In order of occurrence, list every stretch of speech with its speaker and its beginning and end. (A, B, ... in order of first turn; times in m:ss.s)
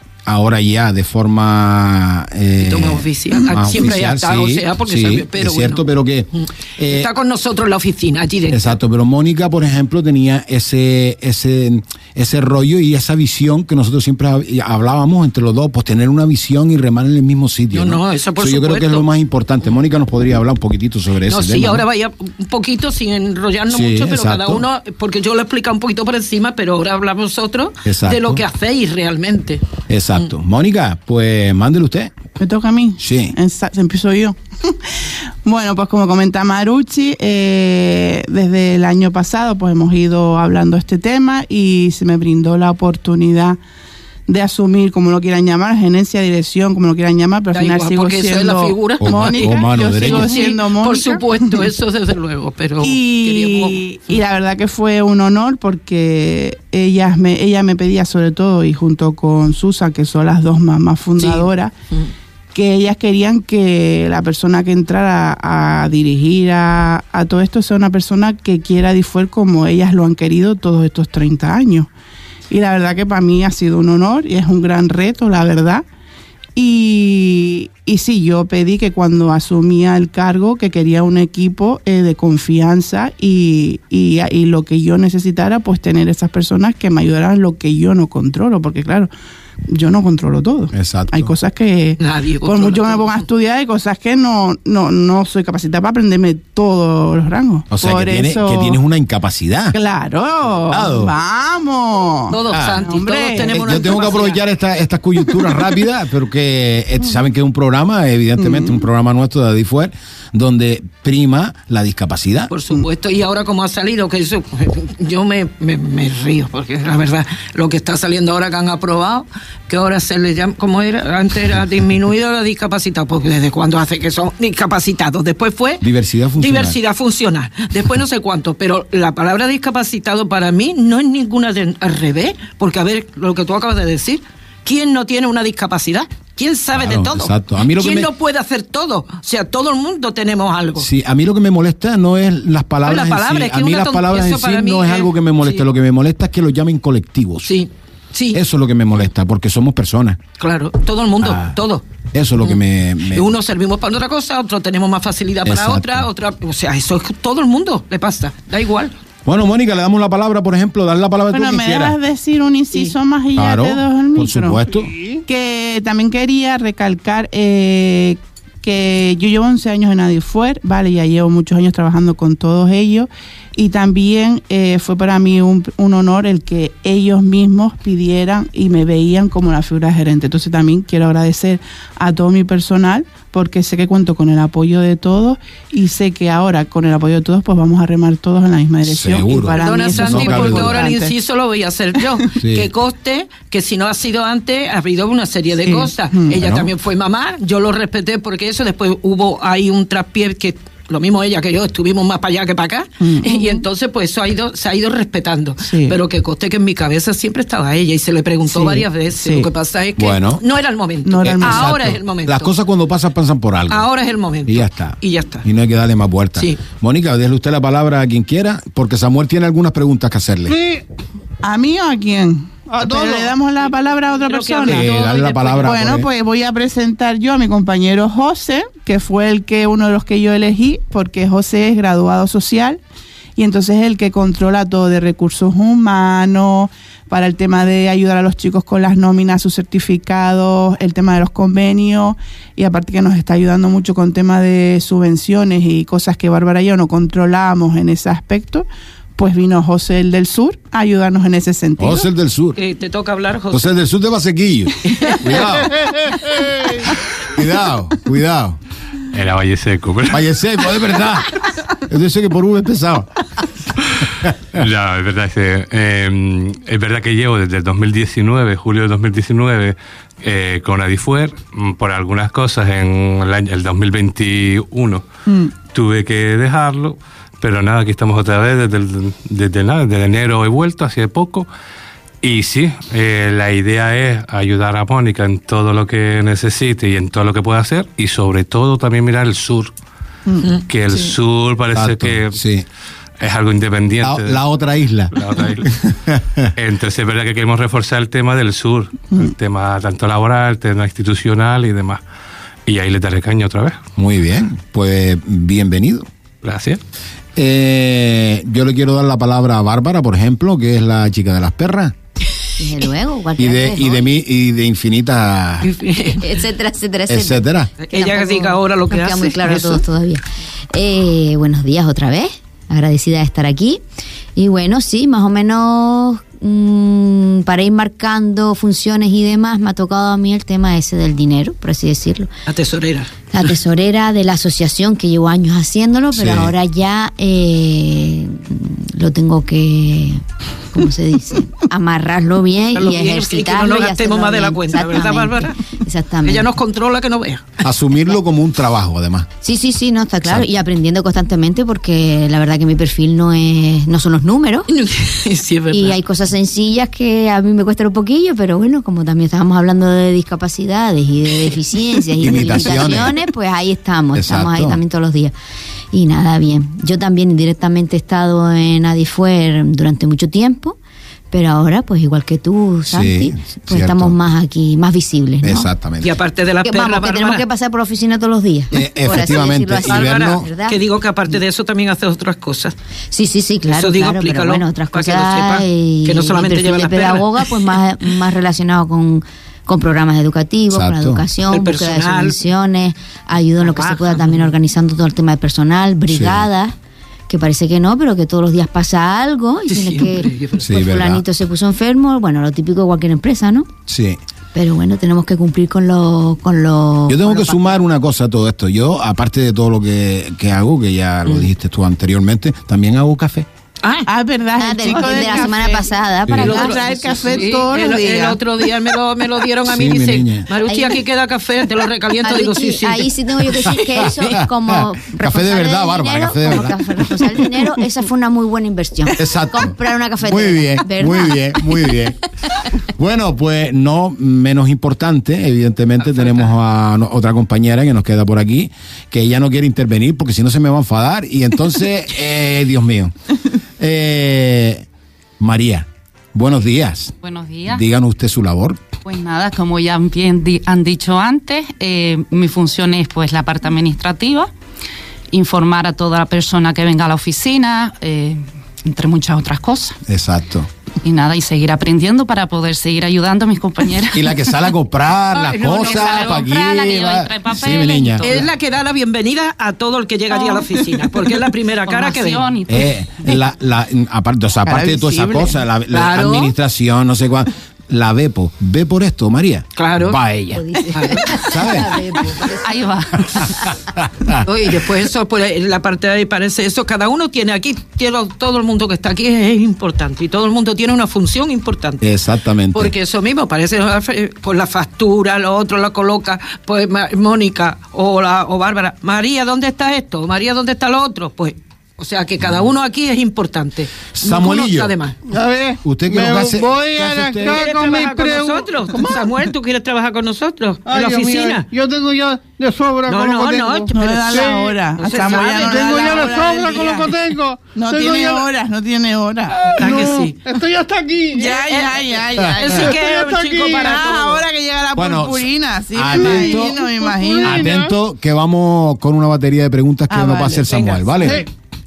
0:00.2-0:07.1 A
0:02.6-0:08.7 B
0:08.5-0:21.8 A
0:17.7-0:19.1 B
0:21.2-0:29.6 B
0:23.7-0:24.6 A
0:27.8-0:28.4 A
0:29.9-0:32.1 A
0:32.4-0:43.6 C
0:33.0-0:33.4 A
0:44.3-0:51.7 C
0:47.5-0:53.8 B
0:49.0-0:50.3 A
0:52.8-1:01.7 C
1:01.2-1:02.1 B
1:02.5-1:11.9 C
1:12.5-1:15.8 C
1:16.6-1:29.1 C
1:29.7-1:38.8 C
1:30.7-1:31.3 A
1:32.0-1:33.2 B
1:37.7-1:39.8 A
1:39.7-1:43.8 C
1:40.7-1:41.1 A
1:42.3-1:44.4 B
1:42.5-1:42.8 A
1:43.4-1:52.5 A
1:48.4-1:48.7 C
1:52.5-2:05.8 B
2:05.8-2:06.8 A
2:06.4-2:20.9 B
2:16.8-2:18.1 A
2:20.8-2:27.6 A
2:22.8-2:25.6 B
2:27.4-2:28.4 B
2:28.3-2:30.2 A
2:30.4-2:31.8 B
2:31.2-2:31.5 A
2:32.1-2:33.3 A
2:33.1-2:39.0 B
2:35.4-2:36.1 A
2:39.2-2:42.0 A
2:41.3-2:44.6 C
2:43.4-2:44.9 A
2:44.7-2:45.2 D
2:45.3-3:11.1 C
3:08.8-3:10.8 A
3:09.6-3:32.5 B
3:12.4-3:12.7 A
3:15.6-3:16.3 C
3:16.3-3:16.7 A
3:23.0-3:23.6 C
3:25.6-3:26.0 C
3:28.5-3:29.5 C
3:30.0-3:30.4 A
3:31.0-3:31.9 C
3:31.2-3:33.9 A
3:33.7-3:35.5 B
3:34.4-3:40.6 A
3:40.4-3:40.8 D
3:41.4-3:44.9 C
3:42.7-3:43.4 D
3:44.3-3:45.8 B
3:44.7-3:46.1 A
3:45.6-3:52.8 C
3:53.4-4:12.1 C
4:11.8-4:12.6 A
4:12.6-4:13.7 B
4:13.5-4:15.8 A
4:14.8-4:15.4 B
4:15.8-4:16.8 D
4:17.1-4:18.6 A
4:19.1-4:20.3 E
4:20.1-4:23.1 A
4:23.9-4:35.0 E
4:24.2-4:24.6 A
4:35.6-4:41.5 E
4:42.2-4:49.7 E
4:50.7-4:52.4 E
4:51.7-4:52.6 A
4:53.2-4:54.4 E
4:54.0-4:56.5 A
4:55.1-4:55.7 E
4:56.5-5:02.0 E
5:02.6-5:03.8 E
5:04.0-5:06.1 A
5:06.4-5:06.8 E
5:07.4-5:11.9 A
5:12.6-5:14.0 F
5:13.4-5:15.7 A
5:15.6-5:16.3 B
5:16.2-5:23.8 F
5:17.1-5:17.7 A
5:17.8-5:19.8 B
5:24.4-5:32.3 F
5:32.5-5:33.1 B
5:33.3-5:46.5 F
5:36.1-5:36.5 A
5:42.7-5:45.6 B
5:46.2-5:47.5 B
5:47.6-5:49.3 A
5:49.4-5:54.7 F
5:50.2-5:50.5 A
5:54.7-5:56.0 B
5:55.7-6:05.3 F
6:02.2-6:03.2 A
6:04.1-6:04.8 A
6:05.9-6:10.8 F
6:11.3-6:15.7 F
6:12.9-6:14.2 A
6:15.4-6:16.1 A
6:16.0-6:17.4 B
6:16.6-6:20.8 F
6:18.7-6:20.5 A
6:19.8-6:22.7 B
6:23.1-6:36.7 F
6:23.7-6:27.6 B
6:30.7-6:31.2 A
6:31.5-6:32.4 B
6:33.7-6:34.2 B
6:36.1-6:36.5 A
6:37.3-6:43.7 F
6:39.7-6:40.7 B
6:40.6-6:41.2 A
6:43.9-6:44.2 A
6:44.5-6:47.8 F
6:47.1-6:53.5 A
6:53.8-6:54.1 B
6:54.1-6:55.9 C
6:54.6-6:57.1 F
6:54.9-6:55.4 B
6:56.3-6:56.6 A
6:56.4-7:04.4 B
6:56.4-6:58.4 C
6:59.6-7:00.5 A
7:00.6-7:01.0 F
7:02.2-7:12.0 F
7:04.3-7:07.0 A
7:09.2-7:12.2 A
7:12.8-7:23.1 A
7:23.8-7:24.8 A
7:25.4-7:27.1 A
7:27.2-7:27.8 G
7:27.7-7:28.8 A
7:29.0-7:34.5 G
7:35.3-7:40.0 G
7:40.1-7:40.7 A
7:41.0-7:44.5 G
7:44.1-7:48.4 A
7:45.4-7:46.4 B
7:45.5-7:48.4 G
7:48.2-7:52.5 B
7:51.8-7:53.1 G
7:52.7-8:00.6 A
7:54.6-7:55.5 C
7:55.9-7:56.5 B
7:59.8-8:00.2 B
8:00.5-8:02.9 F
8:00.9-8:01.3 B
8:01.4-8:02.0 A
8:02.6-8:03.7 G
8:03.4-8:04.4 A
8:04.4-8:12.0 B
8:12.0-8:12.9 A
8:12.7-8:25.2 B
8:24.1-8:24.9 A
8:25.2-8:29.3 D
8:25.8-8:27.6 A
8:27.4-8:31.7 B
8:30.8-8:38.5 D
8:33.1-8:36.3 B
8:33.9-8:37.1 C
8:37.7-8:39.7 C
8:39.5-8:41.7 D
8:39.8-8:40.4 B
8:41.4-8:42.9 C
8:41.6-8:44.4 B
8:42.7-8:44.1 D
8:43.9-8:47.7 C
8:45.0-8:46.8 A
8:46.1-8:47.9 D
8:47.4-8:51.4 A
8:50.1-8:51.0 C
8:51.2-8:51.5 D